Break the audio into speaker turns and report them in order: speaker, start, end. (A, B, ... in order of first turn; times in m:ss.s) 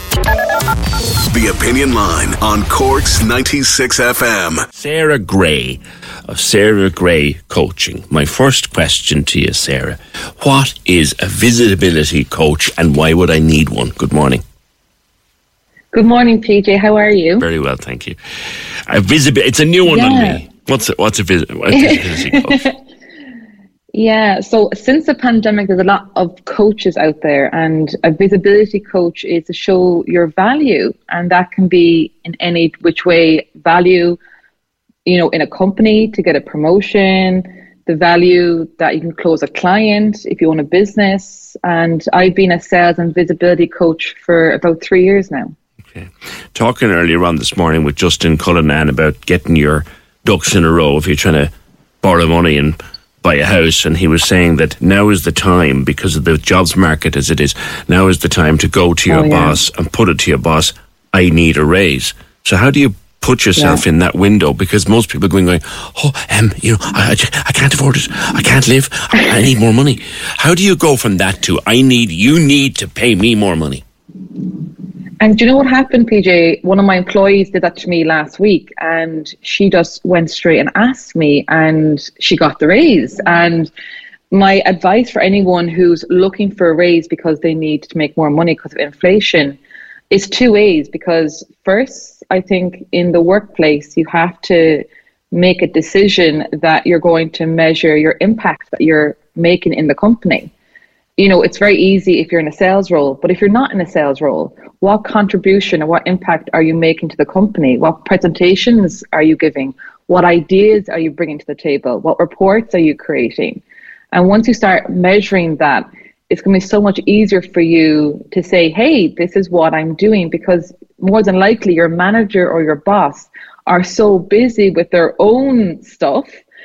0:01.3-0:04.6 A
0:04.8-0:14.4 B
0:15.9-0:17.5 C
0:17.4-0:18.2 B
0:18.9-0:22.6 B
0:19.8-0:20.4 C
0:21.7-0:22.8 C
0:23.9-0:34.2 C
0:35.0-0:45.5 C
0:45.9-0:51.5 B
0:52.0-1:13.8 B
0:59.1-0:59.6 C
1:03.6-1:03.8 C
1:15.2-1:23.7 C
1:24.3-1:29.6 C
1:30.1-1:40.5 C
1:41.2-2:06.4 C